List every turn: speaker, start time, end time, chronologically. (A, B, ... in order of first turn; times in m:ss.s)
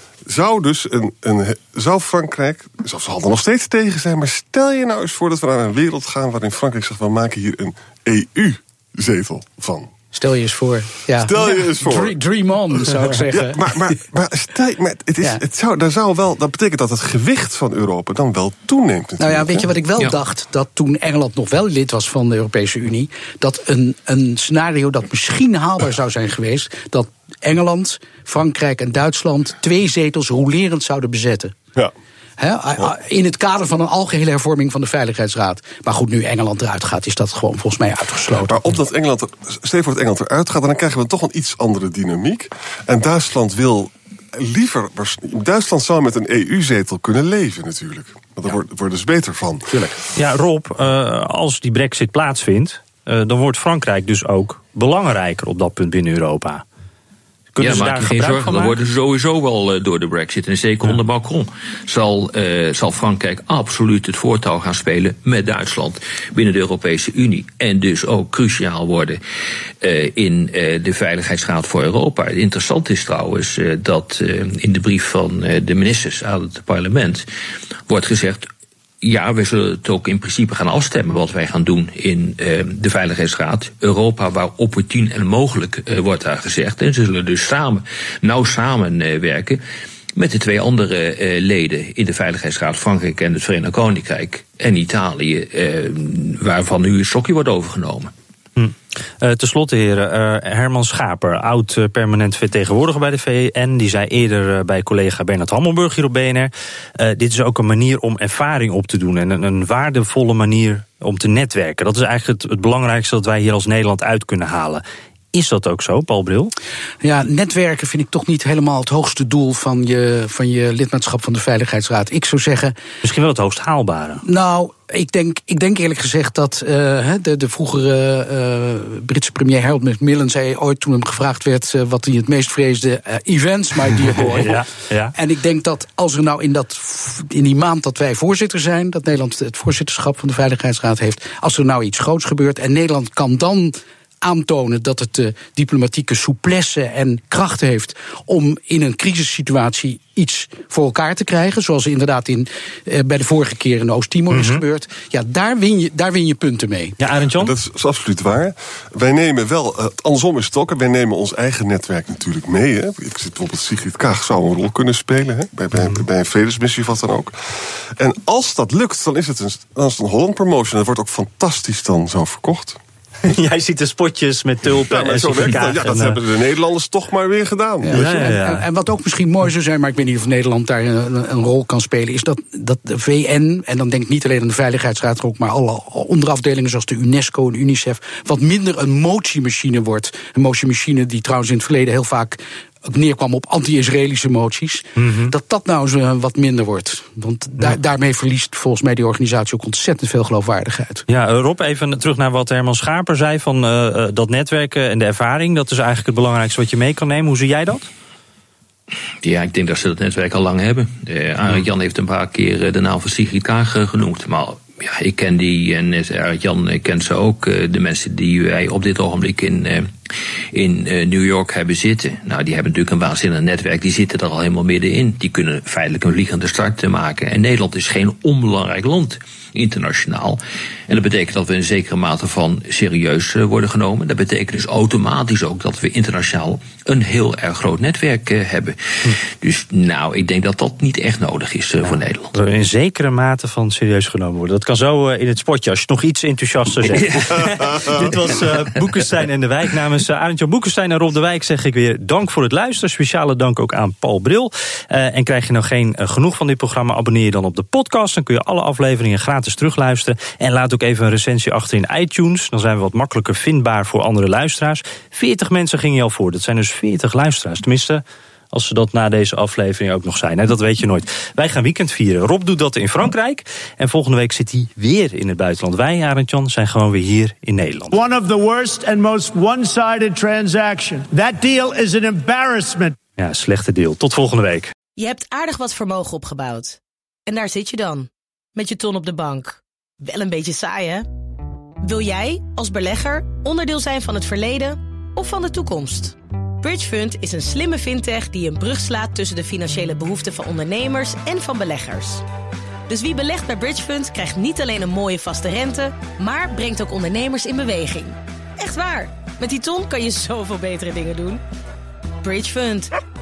0:00.3-0:09.9 A
0:10.1-0:13.8 B
0:11.2-0:12.2 A
0:12.7-0:19.7 A
0:19.2-0:31.6 B
0:32.4-0:38.6 B
0:38.4-0:49.9 A
0:50.2-0:56.6 C
0:57.6-0:58.8 C
0:57.6-1:09.2 D
1:09.8-1:17.3 D
1:17.9-1:18.5 D
1:19.0-1:29.6 D
1:30.2-1:38.1 D
1:38.6-1:56.5 C
1:57.0-2:02.8 B
2:03.0-2:04.2 C
2:04.2-2:14.6 B
2:14.2-2:15.1 C
2:15.2-2:37.0 B
2:34.3-2:34.6 C
2:37.0-2:37.6 C
2:37.4-2:52.8 A
2:45.8-2:46.0 C
2:53.2-2:56.2 C
2:54.8-2:58.4 A
2:57.8-3:21.0 B
2:57.9-2:58.6 C
3:15.0-3:15.3 C
3:21.1-3:27.9 C
3:29.2-3:39.9 D
3:40.5-4:02.3 D
4:01.8-4:38.0 C
4:07.1-4:07.7 D
4:37.9-4:43.0 E
4:43.2-4:44.7 C
4:45.0-4:51.1 F
4:51.8-5:02.2 F
5:02.9-5:11.4 F
5:12.2-5:12.9 F